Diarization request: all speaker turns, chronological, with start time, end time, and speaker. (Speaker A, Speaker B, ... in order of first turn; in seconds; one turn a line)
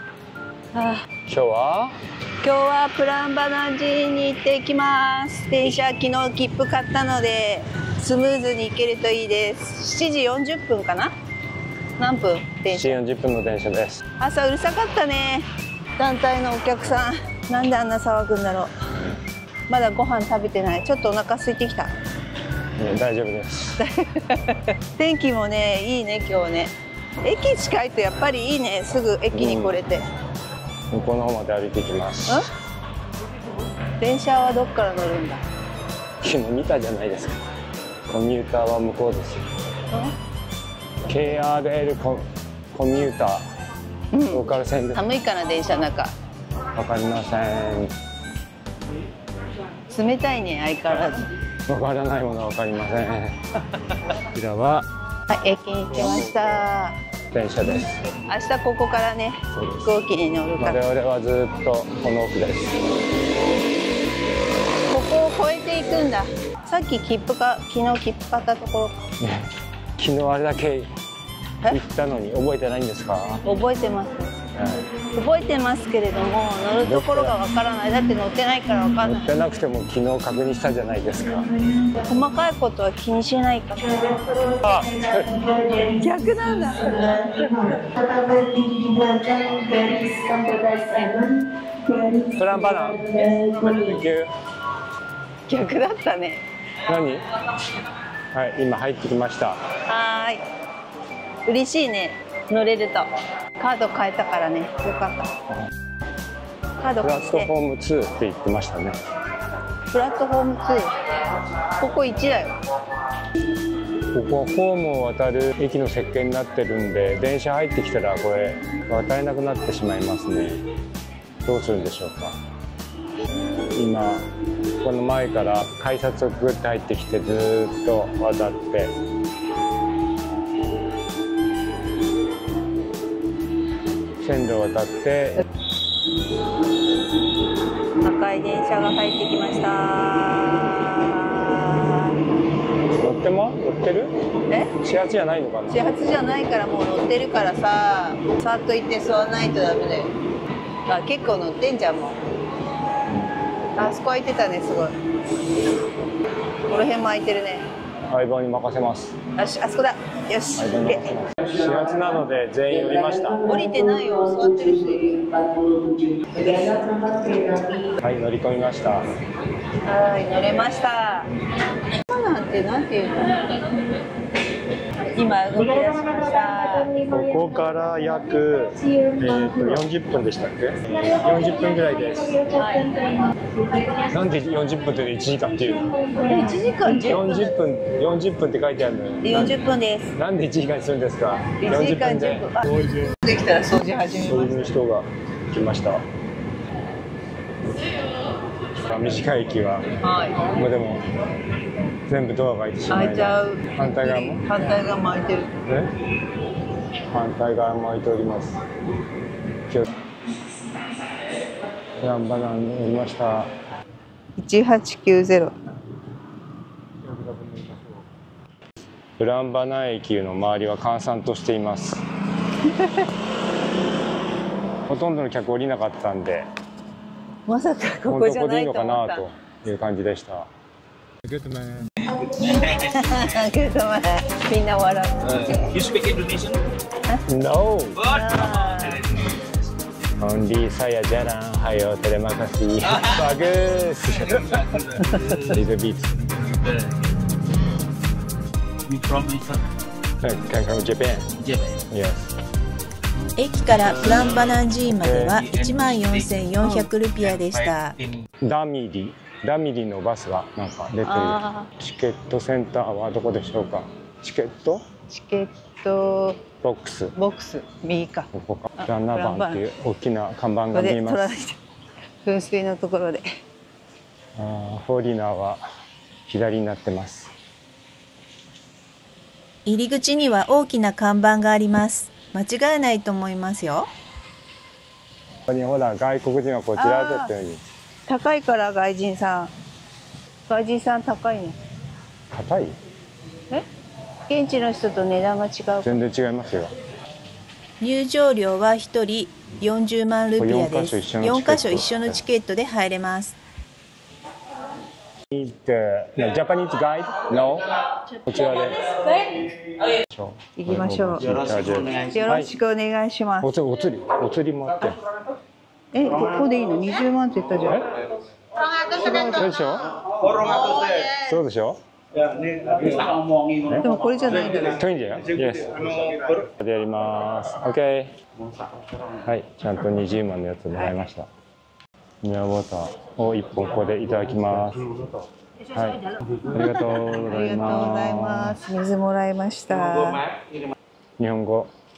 Speaker A: 0.7-1.1
Speaker B: 1.3-2.0
Speaker A: 2.4-11.1
Speaker A: 12.0-13.0
Speaker B: 12.7-14.0
Speaker A: 14.2-18.7
Speaker A: 19.7-21.9
Speaker B: 22.8-23.8
Speaker A: 23.8-26.7
Speaker A: 27.2-30.1
Speaker B: 29.3-29.8
Speaker B: 30.9-32.5
Speaker A: 34.0-35.4
Speaker B: 36.2-37.4
Speaker B: 38.1-39.5
Speaker B: 41.1-43.5
Speaker A: 44.1-46.1
Speaker B: 44.3-45.1
Speaker B: 46.8-47.9
Speaker A: 49.9-51.3
Speaker B: 51.7-53.5
Speaker B: 54.2-54.9
Speaker A: 55.3-57.0
Speaker B: 57.3-58.0
Speaker A: 58.3-60.8
Speaker B: 59.5-59.8
Speaker B: 60.6-62.8
Speaker A: 64.9-69.0
Speaker B: 69.2-70.9
Speaker B: 71.7-73.4
Speaker A: 73.4-74.4
Speaker B: 74.5-74.8
Speaker A: 75.1-79.3
Speaker B: 76.8-77.3
Speaker B: 79.0-81.5
Speaker A: 82.0-84.2
Speaker B: 84.6-85.4
Speaker A: 85.8-87.3
Speaker C: 86.7-90.4
Speaker A: 89.8-91.2
Speaker B: 92.3-94.3
Speaker A: 93.3-93.7
Speaker A: 95.5-96.4
Speaker B: 96.8-97.2
Speaker B: 98.3-99.6
Speaker A: 99.9-100.4
Speaker A: 101.5-105.3
Speaker A: 106.8-107.5
Speaker B: 107.0-109.0
Speaker A: 109.9-110.9
Speaker A: 111.8-112.6
Speaker B: 114.1-120.6
Speaker B: 121.5-122.4
Speaker B: 123.7-124.3
Speaker B: 124.8-128.9
Speaker B: 134.2-135.4
Speaker A: 138.0-142.2
Speaker B: 143.0-144.1
Speaker B: 144.8-145.8
Speaker A: 145.7-150.1
Speaker A: 150.9-152.2
Speaker A: 153.8-154.9
Speaker A: 156.7-157.7
Speaker B: 158.1-159.2
Speaker A: 159.4-161.1
Speaker B: 160.6-163.6
Speaker A: 163.4-167.9
Speaker B: 168.0-169.1
Speaker A: 169.8-171.3
Speaker A: 172.0-173.5
Speaker A: 175.1-176.9
Speaker B: 177.0-182.4
Speaker A: 182.5-183.1
Speaker B: 184.0-186.1
Speaker A: 186.2-187.5
Speaker B: 186.9-189.6
Speaker A: 189.2-190.2
Speaker B: 190.2-193.2
Speaker A: 191.6-194.5
Speaker B: 194.0-196.0
Speaker B: 198.8-199.9
Speaker A: 200.0-200.5
Speaker B: 200.4-201.0
Speaker B: 202.1-204.5
Speaker A: 202.9-205.5
Speaker B: 205.6-205.9
Speaker B: 207.1-208.6
Speaker B: 212.0-213.5
Speaker A: 214.4-215.6
Speaker B: 217.0-218.0
Speaker B: 219.2-222.0
Speaker A: 222.7-223.1
Speaker B: 224.9-226.5
Speaker A: 227.5-229.3
Speaker B: 228.1-230.5
Speaker B: 231.2-231.9
Speaker A: 232.5-235.6
Speaker D: 235.2-236.6
Speaker B: 237.3-238.1
Speaker D: 238.0-239.3
Speaker A: 238.1-239.0
Speaker B: 240.2-244.8
Speaker D: 244.1-245.6
Speaker B: 245.4-246.3
Speaker D: 246.3-247.2
Speaker D: 248.9-249.6
Speaker B: 250.2-251.3
Speaker D: 251.4-251.8
Speaker B: 251.9-252.3
Speaker C: 253.4-257.9
Speaker D: 253.7-256.6
Speaker D: 257.2-258.2
Speaker B: 258.4-264.8
Speaker A: 261.1-261.7
Speaker A: 265.1-266.4
Speaker B: 266.6-267.1
Speaker A: 267.1-269.6
Speaker B: 268.3-271.4
Speaker A: 270.7-271.6
Speaker A: 272.2-273.3
Speaker B: 274.4-275.6
Speaker B: 276.3-277.3
Speaker C: 279.6-283.9
Speaker B: 285.5-287.6
Speaker A: 286.8-287.3
Speaker A: 288.1-289.5
Speaker A: 290.5-291.6
Speaker B: 292.3-292.8
Speaker A: 294.3-295.9
Speaker B: 295.8-296.7
Speaker C: 297.8-303.4
Speaker B: 300.4-302.2
Speaker B: 305.3-307.7
Speaker B: 308.2-308.9
Speaker B: 310.0-312.5
Speaker A: 310.6-311.2
Speaker D: 311.2-312.4
Speaker A: 312.1-313.5
Speaker B: 313.4-315.0
Speaker A: 315.9-317.8
Speaker B: 317.6-317.9
Speaker D: 317.7-318.2
Speaker A: 318.8-319.5
Speaker B: 319.2-320.0
Speaker D: 319.9-321.2
Speaker B: 321.1-321.8
Speaker D: 322.1-326.5
Speaker A: 323.8-324.8
Speaker B: 324.7-325.9
Speaker B: 326.6-328.1
Speaker D: 328.4-329.4
Speaker B: 329.3-331.3
Speaker B: 332.2-334.9
Speaker D: 334.8-335.1
Speaker B: 335.7-338.6
Speaker A: 337.1-340.2
Speaker D: 339.7-340.8
Speaker B: 341.2-341.7